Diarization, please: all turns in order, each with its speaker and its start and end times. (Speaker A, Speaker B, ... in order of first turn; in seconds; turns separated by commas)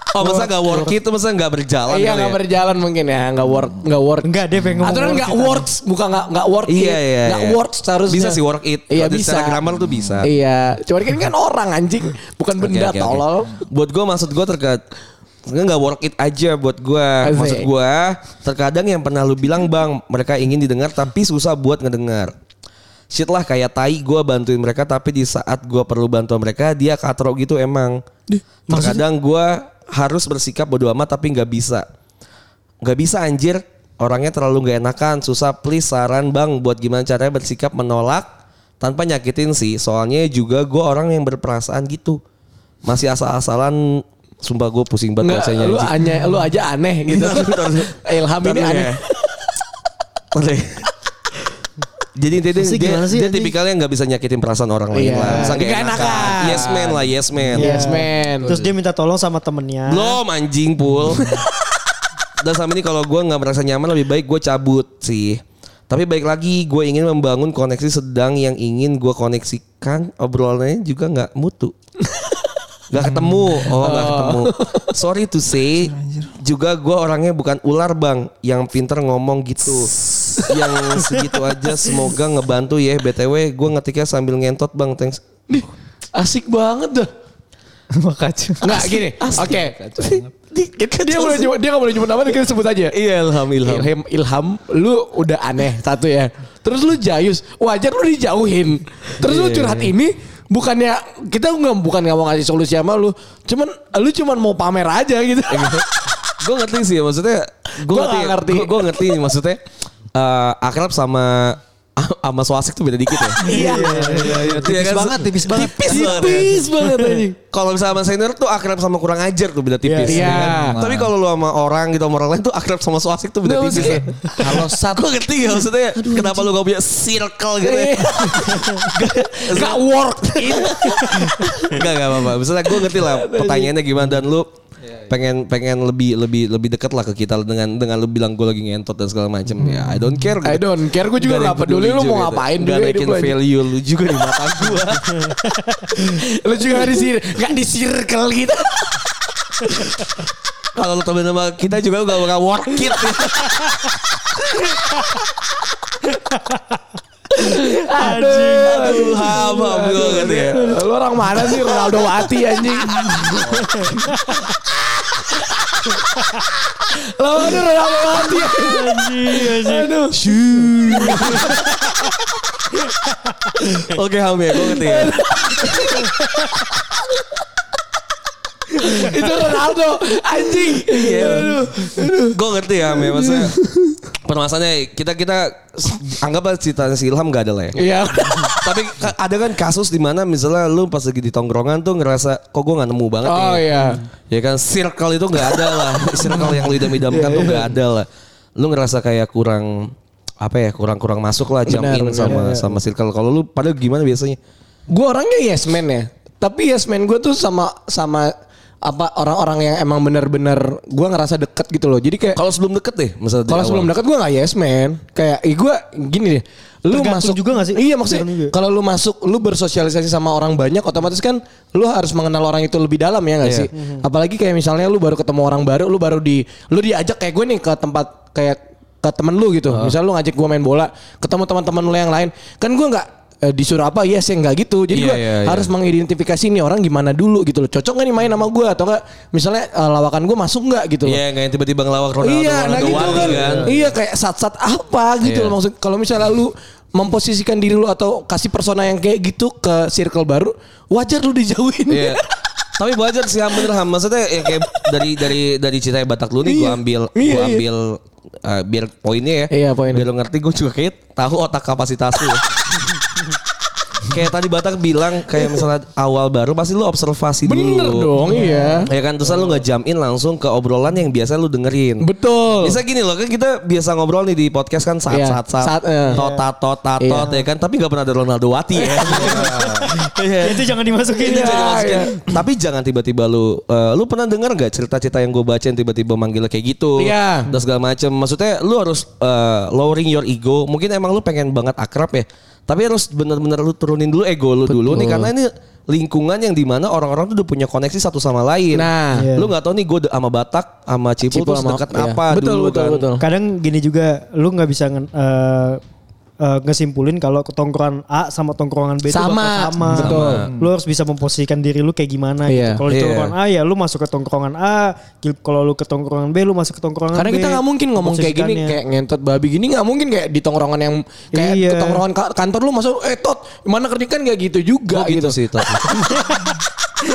Speaker A: 0.1-2.4, Speaker B: 0.2-1.0, Speaker C: 1.9-4.3, Speaker B: 4.2-5.7, Speaker C: 4.8-9.6, Speaker A: 6.7-10.3, Speaker C: 10.2-13.6, Speaker A: 12.6-14.8, Speaker A: 15.5-22.3, Speaker C: 17.2-17.7, Speaker A: 23.1-28.0, Speaker A: 28.7-31.9, Speaker B: 28.7-29.0, Speaker A: 32.8-38.3, Speaker A: 38.8-42.2, Speaker A: 42.8-46.1, Speaker C: 45.2-49.2, Speaker A: 47.1-49.0, Speaker A: 50.3-50.9, Speaker A: 52.2-57.8, Speaker B: 52.6-53.5, Speaker C: 54.9-57.0, Speaker B: 55.2-55.6, Speaker D: 55.9-56.9, Speaker D: 57.4-57.9, Speaker C: 57.5-58.6, Speaker B: 57.5-60.2, Speaker A: 59.9-61.5, Speaker A: 62.4-71.7, Speaker C: 72.1-72.4, Speaker A: 72.9-85.2, Speaker D: 73.0-73.7, Speaker C: 73.6-74.9, Speaker D: 75.7-76.4, Speaker C: 85.5-87.1, Speaker D: 87.9-90.3, Speaker C: 88.6-90.2, Speaker A: 89.2-89.5, Speaker A: 90.5-91.5, Speaker C: 90.8-93.0, Speaker A: 92.9-93.9, Speaker C: 93.6-105.9, Speaker A: 99.2-99.9, Speaker A: 105.5-105.8, Speaker A: 106.4-109.6, Speaker C: 107.9-109.2, Speaker A: 110.1-113.5, Speaker D: 113.4-116.6, Speaker C: 113.4-114.4, Speaker B: 113.5-114.7, Speaker A: 114.5-116.6, Speaker C: 115.5-117.4, Speaker B: 116.8-117.2, Speaker A: 117.5-129.8, Speaker B: 119.8-120.3, Speaker C: 120.1-120.8, Speaker D: 120.1-121.1, Speaker C: 123.4-124.8, Speaker D: 123.7-125.0, Speaker C: 126.0-126.5, Speaker C: 127.6-131.9, Speaker A: 130.4-134.5, Speaker C: 132.7-133.7, Speaker D: 134.8-135.1, Speaker A: 135.1-145.3, Speaker D: 139.6-140.3, Speaker C: 140.4-143.3, Speaker C: 145.9-149.1, Speaker C: 149.7-149.9, Speaker A: 150.8-153.8, Speaker B: 156.3-156.6, Speaker C: 157.4-164.0, Speaker B: 157.4-159.3, Speaker A: 158.7-160.8, Speaker A: 161.4-162.1, Speaker A: 162.9-163.6, Speaker B: 163.5-164.5, Speaker C: 165.1-165.9, Speaker C: 166.8-171.7, Speaker B: 168.3-169.9, Speaker A: 170.2-171.6, Speaker B: 171.0-171.9, Speaker A: 173.8-175.9, Speaker C: 174.6-176.2, Speaker C: 178.8-182.4, Speaker A: 180.8-183.6, Speaker C: 182.9-184.0, Speaker A: 184.2-187.8, Speaker C: 187.8-188.6, Speaker A: 188.3-193.8, Speaker C: 193.3-194.0, Speaker A: 194.3-204.4, Speaker C: 195.5-197.7, Speaker C: 201.7-202.5, Speaker B: 202.3-202.7, Speaker C: 204.9-212.4, Speaker A: 212.3-213.9, Speaker C: 213.5-241.2, Speaker B: 216.9-218.5, Speaker A: 223.4-223.7, Speaker B: 223.7-224.0, Speaker A: 229.7-229.9, Speaker A: 234.9-235.7, Speaker A: 241.1-243.8, Speaker C: 242.2-252.3, Speaker D: 242.7-243.9, Speaker A: 245.2-245.6, Speaker A: 251.9-252.2, Speaker A: 252.8-262.8, Speaker C: 256.4-257.6, Speaker C: 259.5-260.1, Speaker A: 264.0-272.1, Speaker C: 267.5-268.9, Speaker B: 268.3-268.8, Speaker C: 272.0-272.8, Speaker A: 272.6-280.7, Speaker C: 275.1-276.2, Speaker B: 276.1-276.4, Speaker C: 277.0-277.4, Speaker C: 278.8-279.5, Speaker D: 279.2-279.9, Speaker B: 280.4-282.1, Speaker C: 281.2-282.3, Speaker A: 281.2-303.1, Speaker C: 287.0-287.5, Speaker C: 294.7-295.3, Speaker C: 298.7-299.3, Speaker B: 299.1-299.5, Speaker C: 301.3-303.2, Speaker B: 303.2-305.8, Speaker B: 306.4-318.8, Speaker C: 309.1-310.5, Speaker A: 309.9-310.5, Speaker D: 310.0-310.7, Speaker C: 312.5-312.8, Speaker A: 312.9-313.4, Speaker C: 317.1-325.4, Speaker B: 321.3-322.0, Speaker A: 324.9-326.0, Speaker B: 326.2-326.5